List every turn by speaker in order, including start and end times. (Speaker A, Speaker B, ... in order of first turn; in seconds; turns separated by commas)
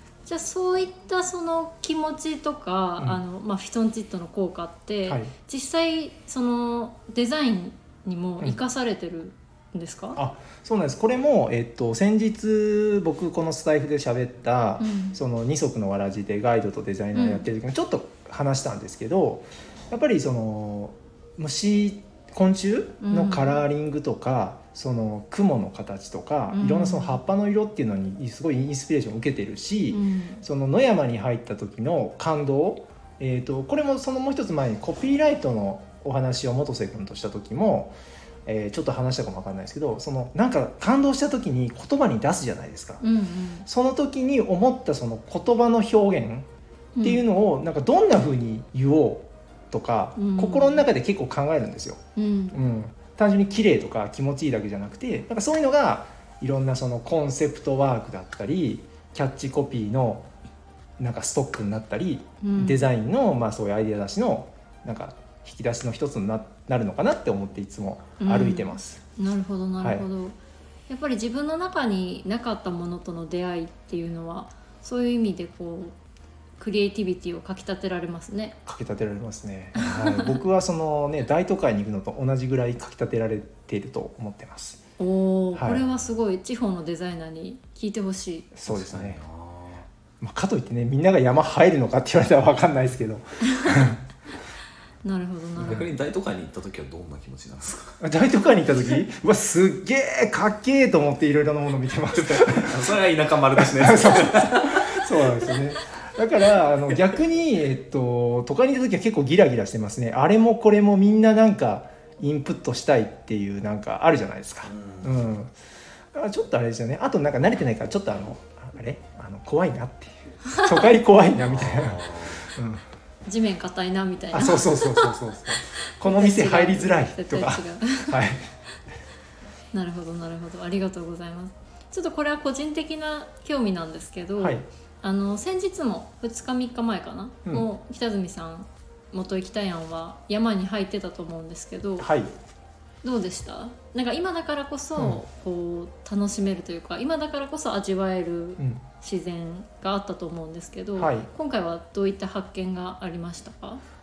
Speaker A: 0.2-10.2, Speaker B: 5.0-5.3, Speaker B: 10.1-43.0, Speaker A: 14.8-15.2, Speaker A: 17.1-17.4, Speaker A: 23.0-23.6, Speaker A: 26.5-27.2, Speaker A: 29.9-30.4, Speaker A: 43.0-43.6, Speaker B: 43.6-46.5, Speaker A: 47.0-47.2, Speaker B: 47.0-52.0, Speaker A: 50.2-50.8, Speaker A: 52.1-52.6, Speaker B: 52.5-60.2, Speaker B: 61.0-69.0, Speaker A: 62.4-62.8, Speaker A: 68.2-70.4, Speaker B: 69.8-70.0, Speaker A: 70.9-76.0, Speaker A: 76.6-78.5, Speaker B: 78.7-84.8, Speaker A: 79.7-80.3, Speaker A: 85.0-88.5, Speaker B: 85.5-85.8, Speaker B: 88.5-89.2, Speaker C: 88.7-89.8, Speaker B: 90.2-94.0, Speaker A: 95.0-95.9, Speaker C: 95.6-98.0, Speaker B: 98.0-102.7, Speaker C: 102.1-105.6, Speaker B: 103.6-115.5, Speaker C: 114.6-115.2, Speaker B: 116.1-122.8, Speaker C: 121.4-122.5, Speaker A: 123.2-128.2, Speaker B: 124.3-128.4, Speaker A: 129.7-142.1, Speaker B: 134.4-134.6, Speaker B: 142.0-142.3, Speaker A: 143.0-153.8, Speaker B: 145.0-145.2, Speaker B: 148.6-148.8, Speaker B: 151.0-151.3